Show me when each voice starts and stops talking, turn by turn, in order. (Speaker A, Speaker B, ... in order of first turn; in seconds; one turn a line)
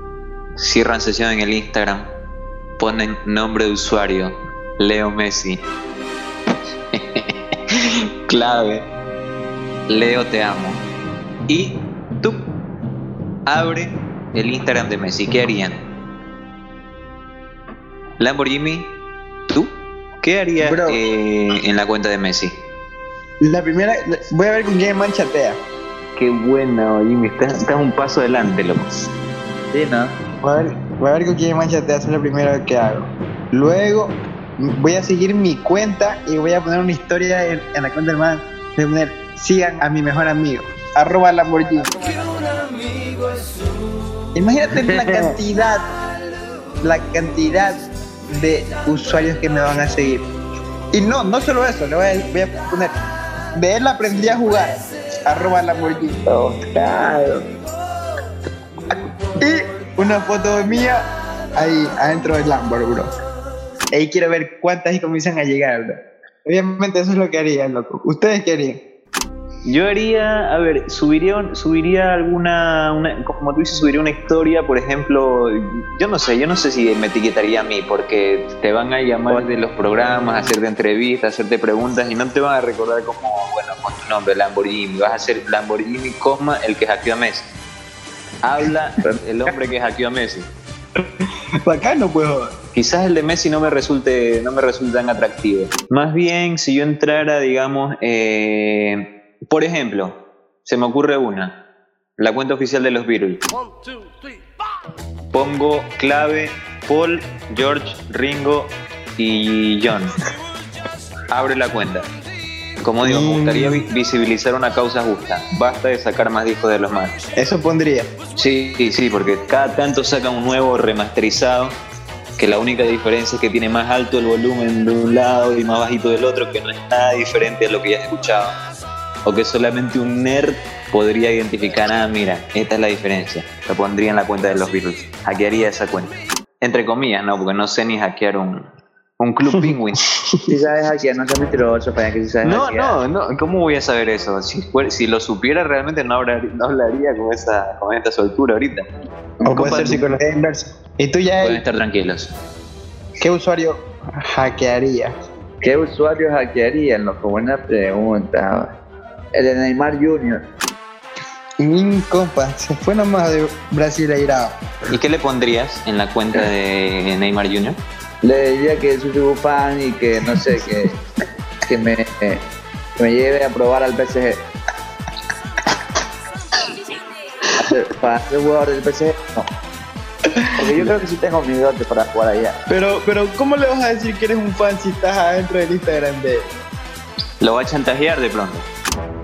Speaker A: 0.6-2.1
Speaker A: 2.8-5.6
Speaker A: 6.9-7.5
Speaker A: 8.3-8.8
Speaker A: 9.9-10.8
Speaker A: 11.5-12.4
Speaker A: 13.5-15.8
Speaker A: 18.2-18.9
Speaker A: 20.2-22.6
Speaker B: 20.7-21.0
Speaker B: 23.4-25.6
Speaker A: 26.2-28.8
Speaker C: 29.7-30.1
Speaker B: 30.4-42.0
Speaker B: 44.4-45.9
Speaker C: 44.9-45.4
Speaker B: 46.8-50.2
Speaker B: 50.9-52.9
Speaker B: 53.6-56.2
Speaker C: 56.3-57.5
Speaker B: 59.4-61.0
Speaker B: 61.6-63.1
Speaker B: 63.9-68.8
Speaker A: 69.7-87.5
Speaker A: 88.4-90.5
Speaker B: 91.7-92.5
Speaker A: 92.7-101.5
Speaker A: 102.2-103.4
Speaker A: 105.3-110.2
Speaker A: 111.3-112.0
Speaker A: 112.8-117.1
Speaker B: 113.0-113.9
Speaker B: 117.4-118.1
Speaker A: 118.4-121.8
Speaker A: 122.4-128.6
Speaker A: 129.2-138.7
Speaker A: 139.2-140.1
Speaker C: 140.5-143.0
Speaker A: 142.4-148.8
Speaker C: 149.4-150.1
Speaker B: 149.4-151.6
Speaker A: 149.5-150.0
Speaker A: 151.4-152.3
Speaker B: 153.2-155.1
Speaker C: 155.6-158.7
Speaker C: 159.4-160.4
Speaker B: 161.6-164.5
Speaker A: 164.9-167.8
Speaker C: 168.2-170.9
Speaker C: 171.7-172.4
Speaker C: 173.0-174.4
Speaker C: 177.6-179.5
Speaker C: 180.6-182.6
Speaker B: 182.7-186.5
Speaker A: 187.4-188.7